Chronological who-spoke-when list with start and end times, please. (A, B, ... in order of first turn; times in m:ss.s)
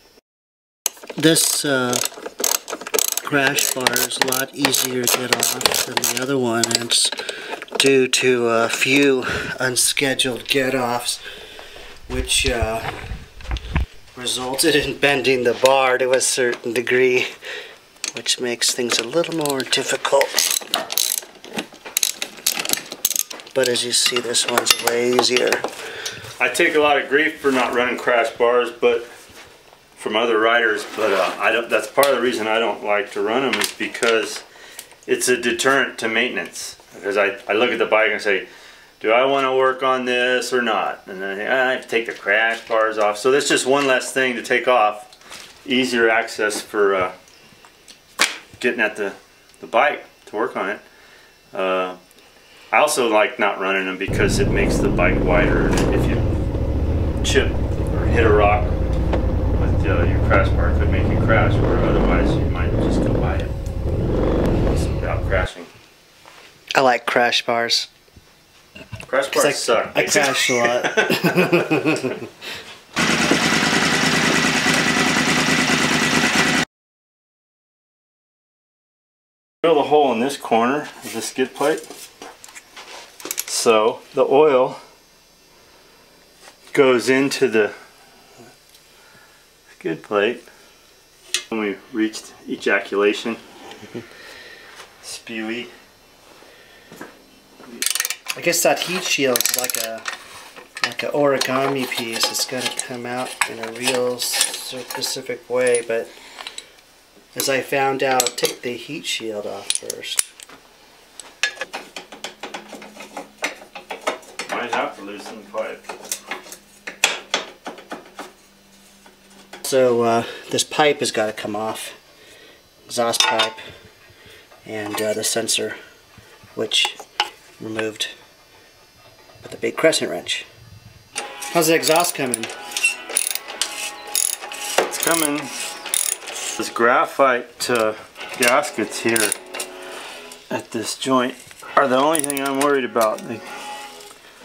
0:01.2-0:02.0 A
0:03.2-0:07.1 A
0:07.8-0:11.2 A
0:12.1-0:12.9 A
0:14.1-0:17.3 A
0:18.1-0:20.5 A
0:23.5-0:25.6 A
0:26.4-0:29.1 B
0:30.0-0:34.4 B
0:35.0-0:38.5 B
0:39.0-0:45.1 B
0:45.6-0:47.1 B
0:48.6-0:50.8 B
0:51.5-0:52.0 B
0:52.7-0:56.2 B
0:57.2-0:58.7 B
0:59.6-1:03.5 B
1:04.7-1:05.7 B
1:06.7-1:07.9 A
1:09.1-1:12.0 B
1:09.3-1:12.3 A
1:19.6-1:21.8 B
1:23.5-1:24.8 B
1:26.7-1:27.7 B
1:29.8-1:30.4 B
1:31.5-1:33.4 B
1:35.0-1:35.7 B
1:38.3-1:40.1 A
1:40.8-1:46.1 A
1:47.3-1:50.3 A
1:54.4-1:55.8 B
1:59.6-2:02.0 A
2:02.8-2:03.6 A
2:04.6-2:05.8 A
2:06.5-2:07.0 A
2:07.6-2:08.1 A
2:09.4-2:10.5 A
2:11.5-2:12.5 A
2:14.8-2:15.5 B
2:16.6-2:19.4 B
2:20.5-2:23.4 B